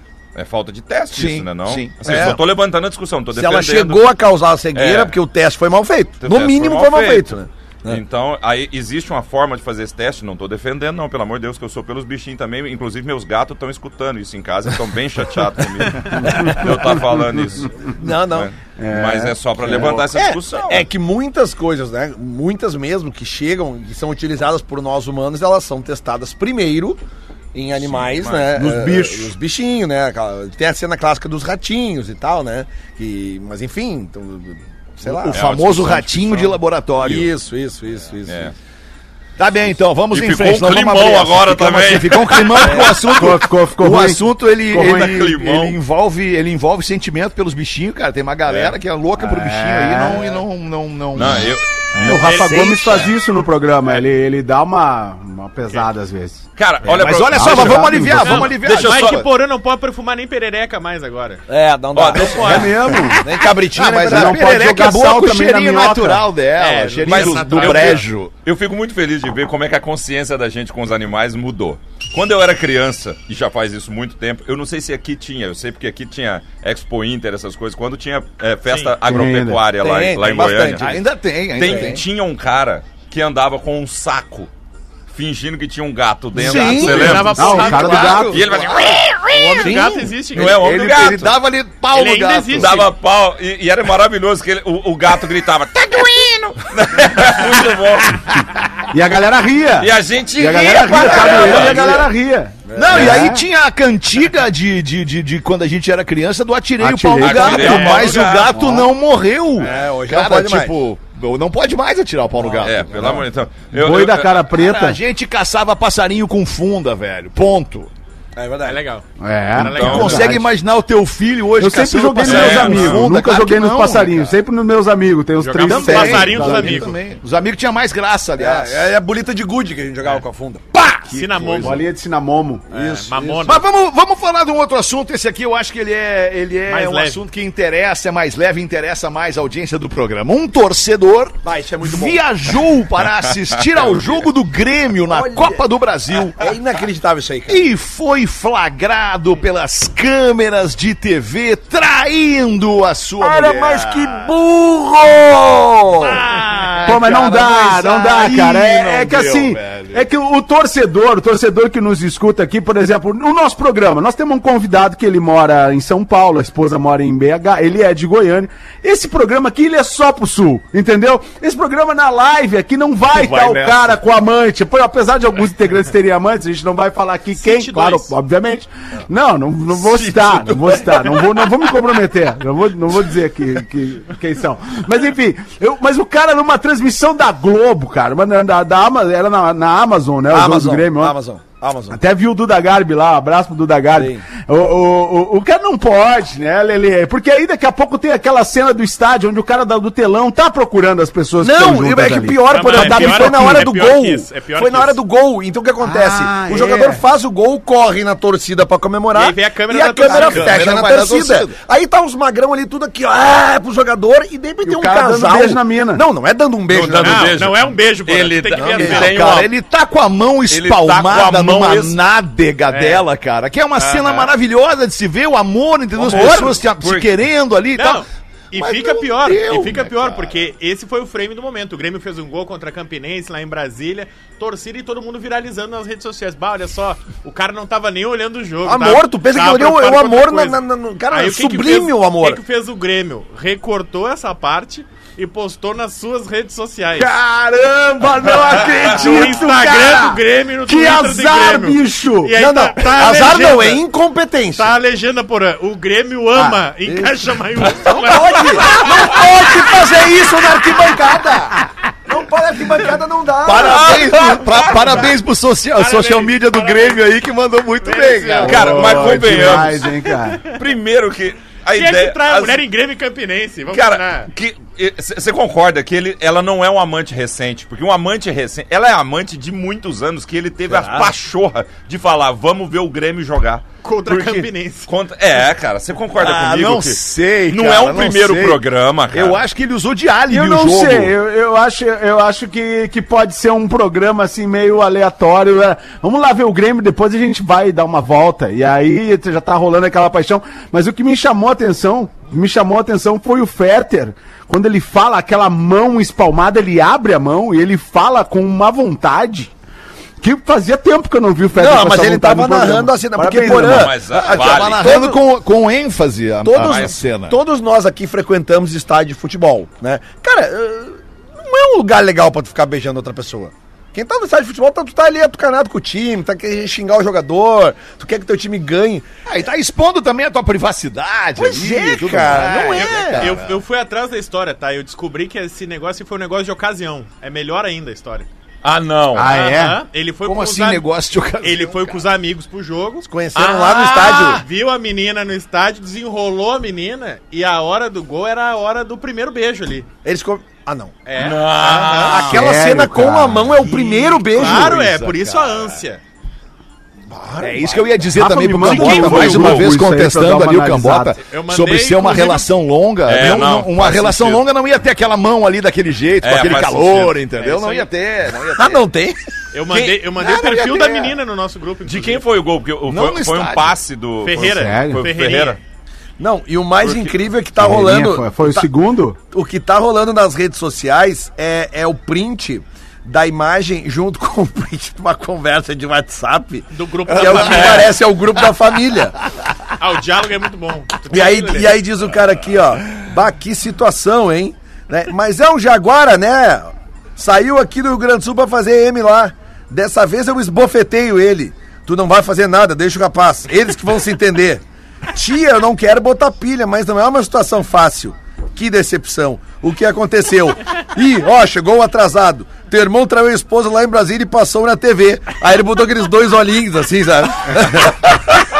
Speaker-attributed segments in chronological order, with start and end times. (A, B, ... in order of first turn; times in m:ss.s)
0:00.3-0:04.1 A
0:01.1-0:02.0 B
0:02.0-0:02.4 C
0:03.3-0:08.0 C
0:04.7-0:05.2 A
0:06.2-0:07.3 A
0:07.8-0:20.9 A
0:16.2-0:16.7 D
0:17.9-0:18.5 C
0:18.8-0:20.0 D
0:19.6-0:27.0 C
0:27.5-0:35.4 C
0:27.8-0:28.7 A
0:28.6-0:29.3 D
0:35.0-0:37.3 B
0:35.2-0:36.5 A
0:37.0-0:38.5 C
0:38.2-0:38.5 A
0:39.4-0:51.5 B
0:40.1-0:43.2 A
0:43.1-0:45.2 D
0:44.7-0:45.8 A
0:48.5-0:48.8 A
0:49.2-0:50.2 D
0:51.1-0:52.2 A
0:51.9-0:53.1 E
0:52.0-0:56.4 D
0:56.6-0:59.3 A
0:56.8-0:59.2 B
0:57.3-0:58.4 D
0:58.2-1:01.4 E
1:01.5-1:04.6 C
1:01.9-1:02.8 A
1:02.1-1:03.0 E
1:02.4-1:03.2 D
1:03.7-1:08.3 B
1:04.0-1:06.3 D
1:06.5-1:08.1 E
1:07.0-1:20.9 A
1:18.6-1:18.9 E
1:19.0-1:19.6 D
1:19.8-1:21.0 C
1:20.8-1:22.0 B
1:21.6-1:24.5 A
1:21.6-1:22.0 C
1:25.1-1:29.8 A
1:26.4-1:27.2 C
1:26.4-1:29.0 B
1:26.5-1:28.5 E
1:27.4-1:28.4 D
1:29.2-1:30.6 E
1:29.6-1:30.1 C
1:30.3-1:31.4 A
1:30.3-1:32.9 B
1:31.9-1:32.8 E
1:32.5-1:38.3 A
1:38.9-1:43.4 D
1:39.8-1:42.0 A
1:40.9-1:42.0 B
1:41.2-1:41.6 C
1:42.7-1:43.2 C
1:42.7-1:53.2 B
1:46.8-1:48.0 D
1:47.2-1:48.5 A
1:47.5-1:48.4 E
1:48.6-1:48.8 D
1:49.6-1:50.8 C
1:52.4-1:53.2 C
1:52.6-1:54.4 A
1:53.7-1:55.0 D
1:54.5-1:57.9 B
1:58.4-1:58.8 C
1:58.6-2:00.4 E
1:59.2-2:00.4 D
1:59.6-2:04.4 B
1:59.7-2:00.3 A
2:01.6-2:06.8 D
2:02.2-2:03.0 A
2:05.4-2:06.9 E
2:05.6-2:08.9 B
2:08.4-2:10.7 C
2:10.7-2:11.8 B
2:11.0-2:11.8 E
2:11.6-2:12.6 D
2:12.7-2:13.6 C
2:12.7-2:13.6 E
2:13.4-2:26.4 B
2:16.7-2:17.2 E
2:21.4-2:22.2 C
2:25.1-2:25.6 C
2:26.3-2:27.6 C
2:27.5-2:34.3 B
2:33.2-2:36.2 C
2:36.0-2:40.1 B
2:36.1-2:36.9 E
2:36.8-3:11.1 D
2:53.1-2:54.0 B
2:57.4-2:58.1 E
2:59.7-3:01.2 A
3:10.3-3:12.0 C
3:11.9-3:23.7 D
3:13.9-3:14.2 C
3:21.4-3:37.4 C
3:22.5-3:25.0 E
3:25.8-3:27.0 D
3:29.1-3:30.6 E
3:30.0-3:31.6 B
3:34.6-3:36.0 D
3:36.7-3:39.5 A
3:37.0-3:39.2 E
3:38.5-3:39.1 C
3:38.8-3:50.4 B
3:40.5-3:42.0 A
3:42.7-3:43.0 E
3:43.8-3:44.3 E
3:46.0-3:47.1 A
3:46.1-3:46.4 C
3:47.7-4:07.2 E
3:58.6-4:02.4 C
4:07.0-4:12.3 D
4:08.5-4:13.8 E
4:12.3-4:14.7 C
4:14.5-4:19.2 E
4:16.9-4:17.2 C
4:17.7-4:24.4 C
4:23.4-4:29.6 B
4:23.5-4:25.1 A
4:25.7-4:27.0 E
4:27.8-4:29.0 E
4:28.4-4:30.4 D
4:28.4-4:29.9 A
4:29.6-4:30.6 E
4:30.4-4:32.6 A
4:31.7-4:34.3 E
4:33.7-4:49.4 A
4:43.8-4:44.9 E
4:46.2-4:51.1 B
4:50.3-5:09.5 D
5:10.2-5:13.9 D
5:11.5-5:15.2 C
5:13.6-5:14.9 A
5:14.1-5:17.4 B
5:16.4-5:29.1 C
5:16.5-5:17.0 A
5:29.2-5:33.6 B
5:31.4-5:33.4 C
5:32.6-5:38.3 E
5:38.6-5:39.3 A
5:39.1-5:39.8 D
5:39.2-5:40.8 E
5:40.2-5:42.0 B
5:41.4-5:49.9 E
5:43.0-5:44.4 C
5:50.0-5:51.0 C
5:51.0-5:52.4 E
5:51.2-5:52.5 A
5:51.7-5:55.5 C
5:52.2-5:53.5 D
5:53.6-5:56.0 E
5:54.4-5:54.8 B
5:57.1-5:58.1 C
5:57.4-6:08.8 B
5:58.2-6:01.2 D
5:58.7-5:59.5 A
6:01.2-6:02.5 E
6:03.0-6:04.4 A
6:06.2-6:07.2 A
6:07.3-6:07.9 E
6:08.6-6:09.2 C
6:09.5-6:12.3 E
6:09.7-6:10.1 A
6:10.2-6:11.1 B
6:11.8-6:15.6 A
6:12.9-6:13.8 B
6:14.2-6:15.6 E
6:14.4-6:15.0 D
6:16.2-6:18.7 C
6:16.8-6:17.1 A
6:17.6-6:19.2 D
6:19.3-6:29.2 C
6:26.7-6:28.0 E
6:27.4-6:27.9 A
6:29.8-6:31.8 E
6:31.1-6:58.2 C